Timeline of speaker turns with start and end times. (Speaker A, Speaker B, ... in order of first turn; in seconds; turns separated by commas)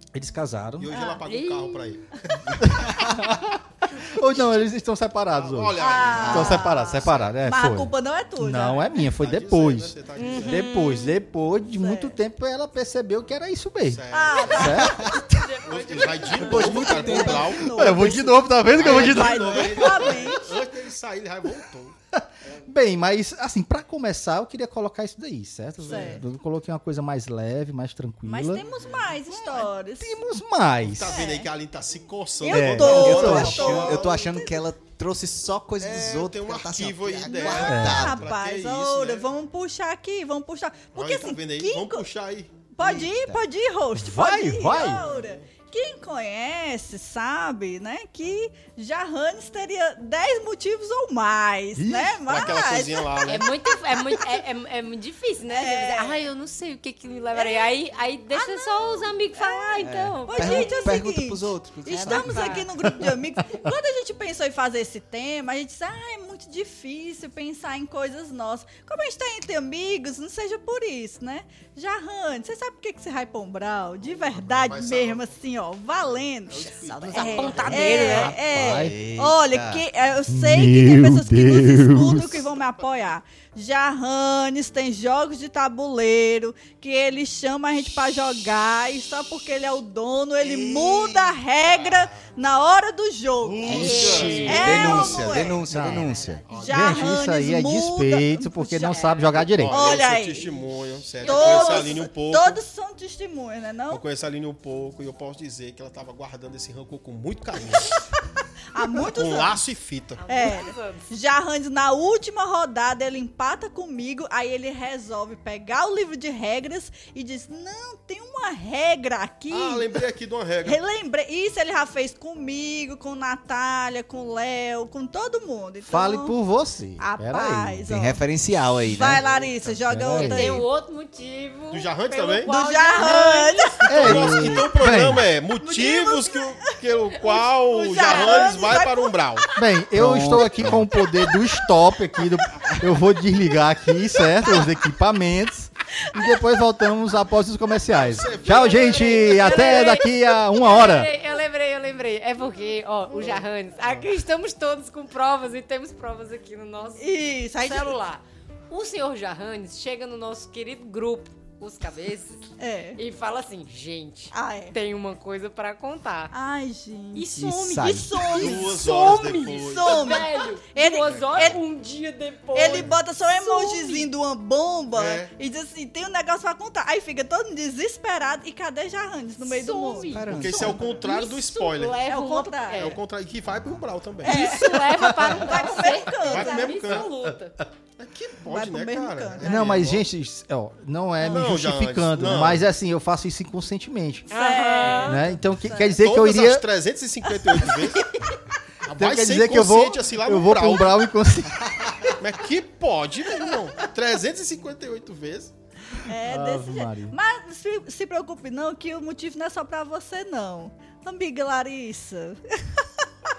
Speaker A: 0.1-0.9, Speaker B: 0.8-3.2, Speaker C: 0.9-1.2, Speaker D: 1.3-1.9, Speaker E: 2.6-3.3, Speaker A: 2.6-15.4, Speaker B: 5.3-7.3, Speaker C: 5.8-9.1, Speaker E: 6.1-6.9, Speaker B: 9.1-10.7, Speaker D: 10.2-11.2, Speaker C: 11.7-12.2, Speaker B: 13.8-18.1, Speaker C: 14.1-15.2, Speaker D: 15.3-17.1, Speaker E: 16.3-18.1, Speaker C: 16.4-20.5, Speaker A: 17.6-20.4, Speaker B: 18.7-21.9, Speaker A: 22.2-28.6, Speaker B: 25.9-26.2, Speaker C: 25.9-26.2, Speaker C: 28.2-30.2, Speaker B: 28.7-29.2, Speaker A: 29.4-31.2, Speaker B: 30.8-34.1, Speaker C: 31.1-31.5, Speaker C: 32.4-34.6, Speaker A: 32.5-33.9, Speaker E: 33.0-38.3, Speaker B: 35.8-39.3, Speaker C: 37.2-42.0, Speaker A: 37.6-38.2, Speaker B: 40.9-42.6, Speaker C: 42.7-53.0, Speaker E: 42.8-43.4, Speaker A: 43.9-45.0, Speaker B: 44.7-45.5, Speaker A: 51.8-52.5, Speaker B: 52.2-53.5, Speaker D: 53.2-61.0, Speaker C: 55.5-56.1, Speaker C: 57.3-57.7, Speaker C: 58.3-95.6, Speaker E: 59.8-62.6, Speaker D: 61.9-62.7, Speaker A: 62.8-63.7, Speaker B: 74.0-75.4, Speaker B: 75.9-78.3, Speaker E: 76.5-79.8, Speaker D: 77.1-78.4, Speaker A: 78.3-79.0, Speaker A: 80.3-82.4, Speaker E: 90.4-91.3, Speaker B: 91.6-92.3, Speaker B: 93.4-95.1, Speaker E: 93.6-96.4, Speaker D: 93.7-96.4, Speaker A: 95.7-96.1, Speaker B: 96.5-97.2, Speaker C: 96.5-100.5, Speaker A: 96.6-99.8, Speaker B: 99.1-102.6, Speaker D: 101.2-102.0, Speaker C: 101.2-104.0, Speaker B: 103.9-108.0, Speaker C: 108.7-109.6, Speaker B: 109.1-110.2, Speaker D: 110.2-111.1, Speaker C: 110.3-120.0, Speaker B: 119.5-120.8, Speaker C: 120.6-126.3, Speaker A: 125.9-127.8, Speaker C: 127.0-128.2, Speaker E: 127.9-129.2, Speaker C: 128.8-130.7, Speaker B: 129.1-129.7, Speaker A: 129.8-130.4, Speaker D: 130.2-134.4, Speaker B: 131.7-132.5, Speaker C: 132.4-134.7, Speaker A: 133.9-135.2, Speaker B: 133.9-139.5, Speaker C: 135.6-136.8, Speaker D: 137.2-138.8, Speaker C: 137.7-139.5, Speaker A: 139.6-151.1, Speaker E: 139.9-140.9, Speaker C: 140.9-141.4, Speaker C: 144.1-144.7, Speaker C: 146.0-146.6, Speaker B: 147.9-149.6, Speaker D: 148.5-166.3, Speaker C: 149.5-149.9, Speaker B: 153.2-154.1, Speaker C: 157.0-157.9, Speaker C: 162.6-163.0, Speaker C: 164.3-164.7, Speaker C: 166.3-171.6, Speaker D: 167.1-174.1, Speaker E: 167.3-168.3, Speaker B: 168.3-170.3, Speaker C: 172.5-180.2, Speaker B: 172.5-173.0, Speaker B: 174.9-175.3, Speaker D: 179.4-183.0, Speaker E: 180.1-181.0, Speaker B: 180.3-182.0, Speaker C: 182.0-182.9, Speaker B: 182.7-184.8, Speaker C: 184.2-187.1, Speaker D: 184.2-187.6, Speaker A: 185.0-185.4, Speaker B: 186.1-187.1, Speaker B: 188.0-190.1, Speaker C: 188.4-189.7, Speaker A: 189.4-194.3, Speaker B: 191.2-192.7, Speaker C: 194.3-195.9, Speaker D: 194.3-195.3, Speaker A: 195.0-196.6, Speaker B: 196.0-198.1, Speaker B: 198.8-201.0, Speaker A: 198.9-202.1, Speaker B: 202.2-205.5, Speaker C: 206.0-212.8, Speaker A: 206.2-207.2